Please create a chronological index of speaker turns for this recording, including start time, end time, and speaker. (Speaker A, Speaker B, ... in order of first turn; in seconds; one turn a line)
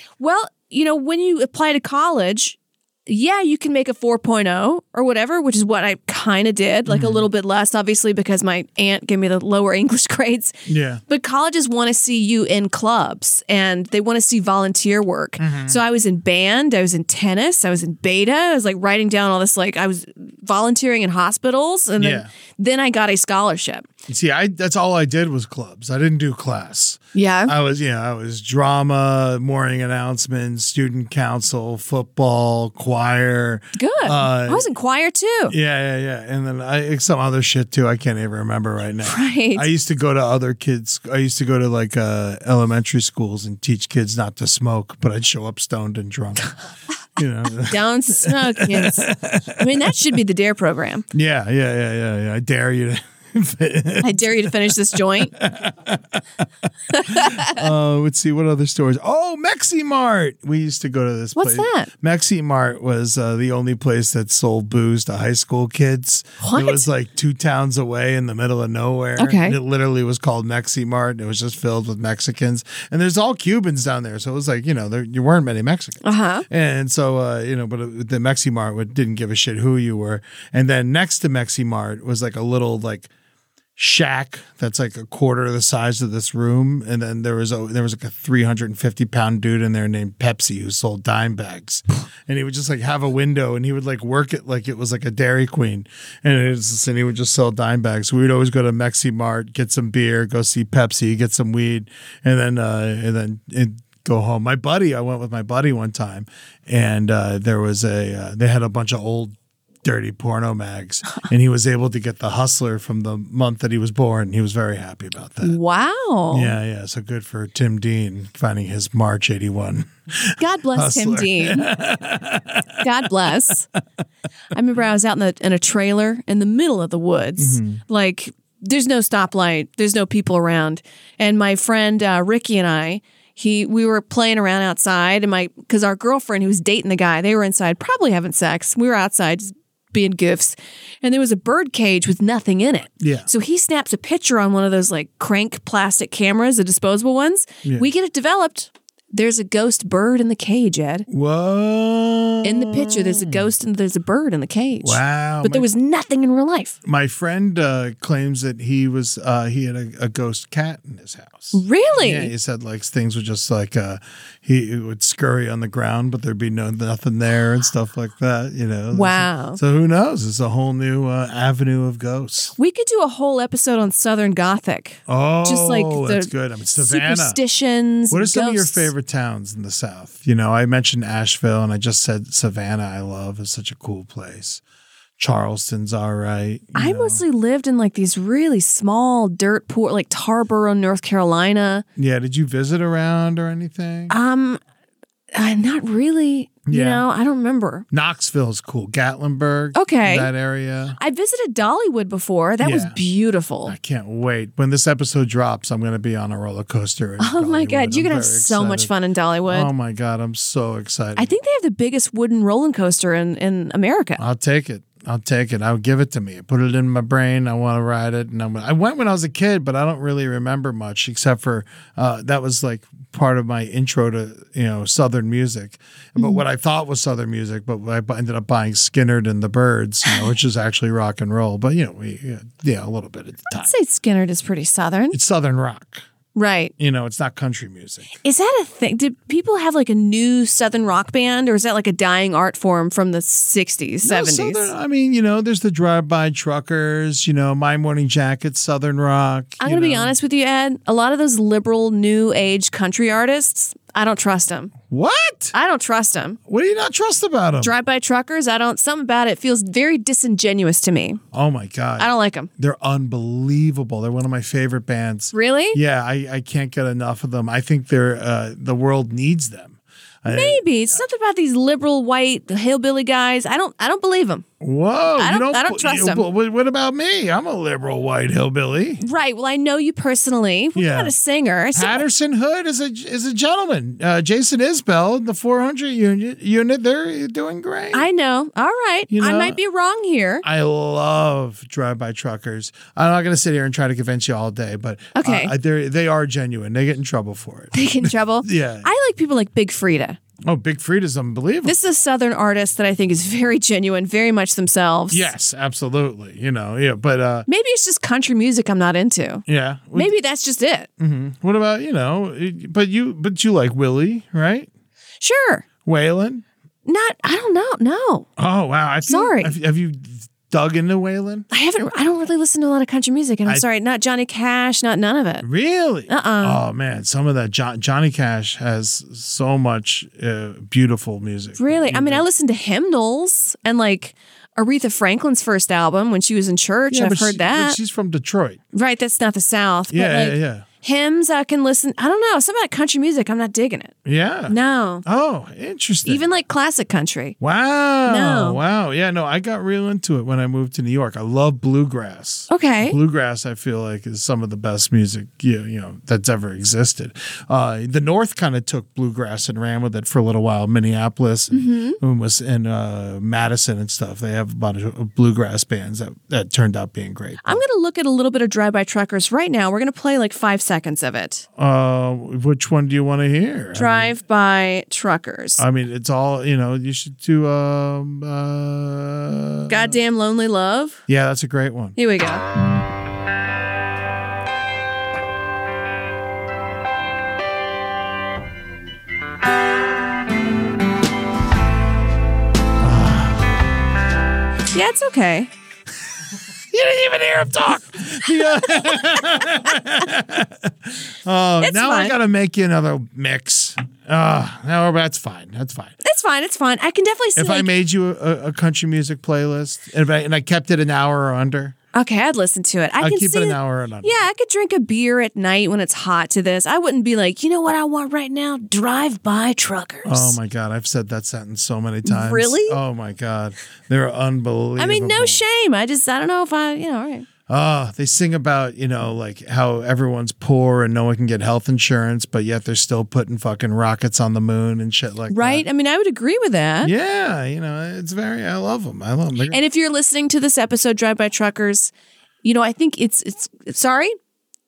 Speaker A: 0.2-10.5
Speaker B: 6.9-7.3
Speaker B: 10.7-11.0
Speaker A: 11.1-23.9
Speaker B: 15.4-15.8
Speaker B: 22.0-22.3
Speaker B: 24.1-34.6
Speaker A: 27.1-27.5
Speaker A: 33.8-35.5
Speaker B: 35.5-46.5
Speaker A: 39.0-39.6
Speaker B: 47.2-50.0
Speaker A: 47.6-51.0
Speaker B: 51.1-56.2
Speaker A: 54.0-55.3
Speaker A: 56.9-57.6
Speaker B: 57.1-83.1
Speaker A: 61.4-61.9
Speaker A: 66.4-66.8
Speaker A: 69.2-69.5
Speaker A: 76.0-76.5
Speaker B: 83.8-115.6
Speaker A: 115.4-116.5
Speaker B: 116.3-122.8
Speaker A: 120.4-121.7
Speaker A: 122.8-123.7
Speaker A: 124.5-151.1
Speaker B: 127.4-127.8
Speaker B: 143.0-143.3
Speaker B: 147.6-147.9
Speaker B: 151.1-153.5
Speaker A: 152.4-156.8
Speaker B: 154.8-155.7
Speaker B: 156.8-172.5
Speaker A: 161.5-162.3
Speaker A: 168.9-169.6
Speaker A: 172.6-178.9
Speaker B: 175.1-177.4
Speaker B: 178.1-184.6
Speaker B: 185.2-187.2
Speaker A: 186.7-191.8
Speaker B: 192.0-194.1
Speaker A: 194.1-194.6
Speaker A: 195.3-197.8
Speaker B: 196.7-197.0
Speaker B: 197.9-201.0
Speaker A: 199.7-200.3
Speaker A: 201.0-203.7
Speaker B: 202.6-203.0
Speaker B: 203.6-208.9
Speaker A: 207.2-209.7
Speaker B: 209.5-211.3
Speaker A: 211.2-214.2
Speaker B: 214.2-233.7
Speaker A: 233.5-235.2
Speaker B: 235.1-236.1
Speaker A: 236.3-236.7
Speaker B: 236.8-238.1
Speaker A: 238.2-244.7
Speaker B: 244.0-250.1
Speaker A: 249.6-254.8
Speaker B: 254.8-255.5
Speaker A: 255.5-256.4
Speaker B: 256.5-257.7
Speaker A: 257.6-261.2
Speaker B: 261.3-271.0
Speaker A: 262.0-262.5
Speaker A: 265.3-265.8
Speaker A: 270.3-274.4
Speaker B: 274.6-279.0
Speaker A: 275.2-276.2
Speaker A: 279.0-282.0
Speaker B: 280.8-281.1
Speaker B: 281.7-288.1
Speaker A: 287.9-290.4
Speaker B: 289.1-289.6
Speaker B: 290.4-298.9
Speaker A: 295.1-295.5
Speaker A: 297.7-300.2
Speaker B: 300.4-301.7
Speaker A: 301.6-305.3
Speaker B: 305.1-307.5
Speaker A: 307.5-310.9
Speaker B: 309.5-310.1
Speaker B: 311.0-314.7
Speaker A: 315.2-315.7
Speaker B: 315.8-316.4
Speaker A: 316.9-318.3
Speaker B: 318.4-321.5
Speaker A: 319.0-319.5
Speaker A: 321.5-325.4
Speaker B: 325.4-332.2
Speaker A: 326.1-326.6
Speaker A: 331.6-337.8
Speaker B: 336.9-338.6
Speaker A: 338.7-344.0
Speaker B: 339.9-340.7
Speaker B: 344.1-346.3
Speaker A: 344.5-345.0
Speaker A: 346.0-347.4
Speaker B: 347.4-367.6
Speaker A: 348.1-348.6
Speaker A: 352.5-353.0
Speaker A: 361.5-362.0
Speaker A: 367.4-371.4
Speaker B: 371.6-374.1
Speaker A: 373.7-375.6
Speaker B: 375.6-379.9
Speaker A: 379.7-381.0
Speaker B: 381.1-381.9
Speaker A: 382.0-382.4
Speaker B: 392.8-393.6
Speaker A: 394.7-395.5
Speaker B: 396.7-406.0
Speaker A: 401.6-402.1
Speaker A: 406.0-407.7
Speaker B: 407.4-411.7
Speaker A: 411.9-420.4
Speaker B: 413.0-414.2
Speaker B: 420.0-425.4
Speaker A: 422.0-422.8
Speaker A: 424.8-427.3
Speaker B: 427.5-435.6
Speaker A: 435.3-436.9
Speaker B: 436.8-439.6
Speaker A: 439.5-441.9
Speaker A: 442.4-444.1